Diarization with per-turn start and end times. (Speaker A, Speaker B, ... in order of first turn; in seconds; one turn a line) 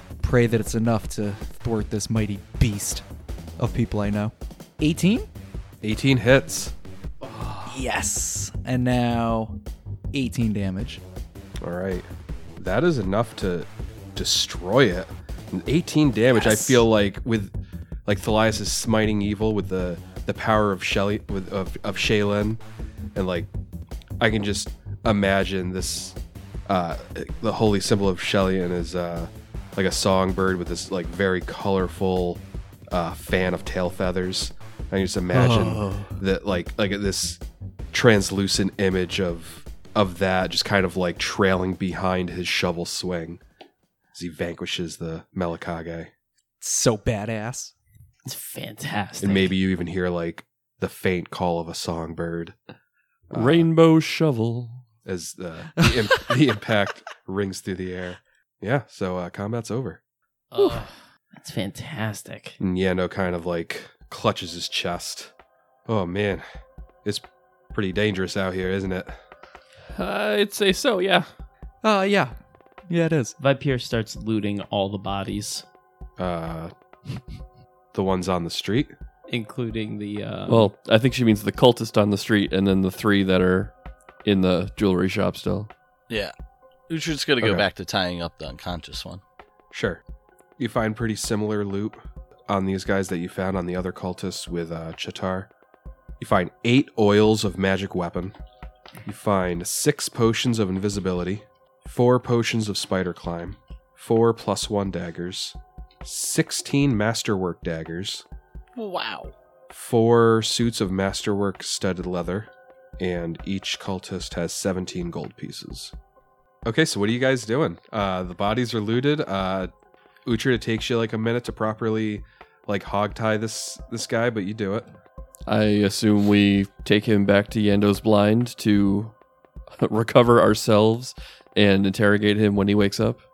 Speaker A: 0.2-3.0
Speaker A: 3.6-5.3
Speaker B: 5.8-6.7
Speaker A: 7.7-9.6
Speaker A: 10.1-11.0
Speaker B: 11.6-17.5
Speaker A: 16.4-16.8
Speaker B: 18.1-22.6
Speaker B: 23.1-23.5
Speaker B: 24.2-26.2
Speaker B: 26.7-37.4
Speaker A: 35.3-36.2
Speaker B: 37.9-43.4
Speaker B: 44.1-46.1
Speaker A: 46.6-47.7
Speaker C: 48.2-49.5
Speaker B: 49.2-52.5
Speaker B: 53.3-53.7
Speaker D: 53.3-54.9
Speaker B: 55.0-60.0
Speaker A: 55.8-56.3
Speaker C: 60.5-62.6
Speaker B: 62.6-65.3
Speaker B: 65.9-66.5
Speaker B: 67.0-69.2
Speaker D: 69.9-71.3
Speaker A: 71.8-72.3
Speaker A: 72.9-73.4
Speaker C: 73.4-75.7
Speaker B: 76.2-76.7
Speaker B: 77.9-78.9
Speaker C: 79.3-80.7
Speaker D: 80.5-83.7
Speaker D: 84.2-85.7
Speaker E: 86.9-89.2
Speaker B: 89.7-90.0
Speaker B: 90.6-95.5
Speaker B: 96.2-98.4
Speaker B: 99.0-108.2
Speaker E: 108.8-109.3
Speaker B: 109.7-115.9
Speaker B: 116.7-119.7
Speaker B: 120.3-124.9
Speaker D: 125.5-129.2
Speaker D: 129.8-133.2